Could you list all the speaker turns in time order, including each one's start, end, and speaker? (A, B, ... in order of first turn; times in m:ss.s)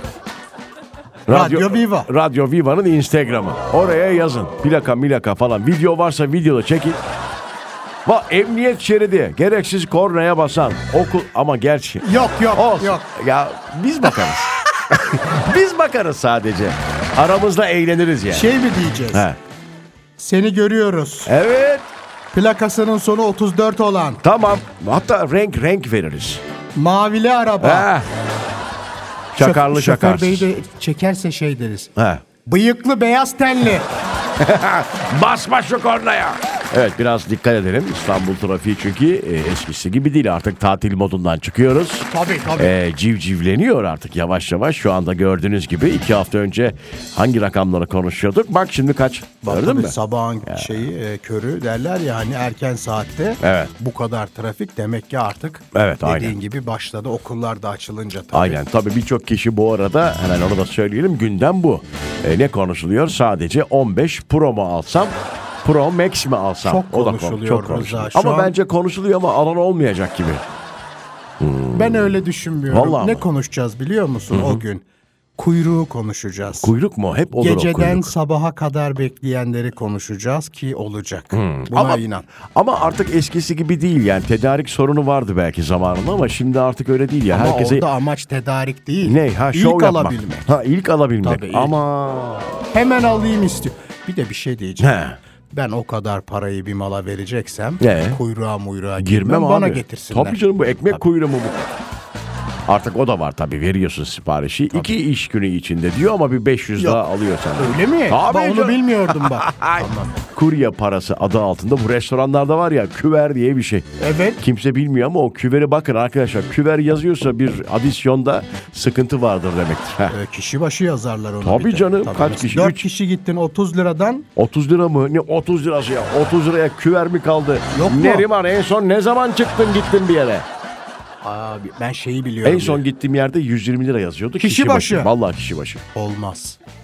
0:01.3-0:07.0 A
0:01.3-0:02.1 B
0:08.0-0:18.5 A
0:12.0-0:13.0 B
0:18.3-0:19.3 B
0:19.1-0:19.4 A
0:20.2-0:21.3 B
0:21.2-0:21.9 A
0:22.3-0:24.2 B
0:24.2-0:26.4 A
0:26.8-0:27.9 B
0:27.6-0:28.1 A
0:29.3-0:30.5 A
0:29.4-0:31.9 B
0:32.0-0:32.2 A
0:32.4-0:33.9 B
0:34.4-0:50.9 A
0:42.1-0:42.7 B
0:49.4-0:58.6 B
0:53.4-0:53.7 A
0:55.7-0:56.4 A
0:58.3-1:10.4 A
1:06.6-1:08.5 B
1:11.4-1:12.2 A
1:11.7-1:14.8 B
1:12.7-1:13.3 A
1:14.3-1:14.6 A
1:15.4-1:16.7 B
1:16.6-1:18.1 A
1:17.4-1:22.2 B
1:21.3-1:22.0 A
1:22.5-1:27.8 A
1:27.3-1:30.5 B
1:29.0-1:32.4 A
1:31.2-1:31.8 B
1:32.7-1:40.4 B
1:34.8-1:35.2 A
1:37.8-1:38.2 A
1:39.0-1:41.7 A
1:42.7-2:00.1 A
1:46.8-1:47.0 B
1:47.6-1:50.2 B
1:54.0-1:54.4 B
2:00.1-2:04.3 B
2:01.4-2:02.8 A
2:04.4-2:10.5 A
2:07.7-2:08.3 B
2:11.2-2:12.8 B
2:12.4-2:15.8 A
2:14.4-2:15.1 B
2:15.9-2:16.6 B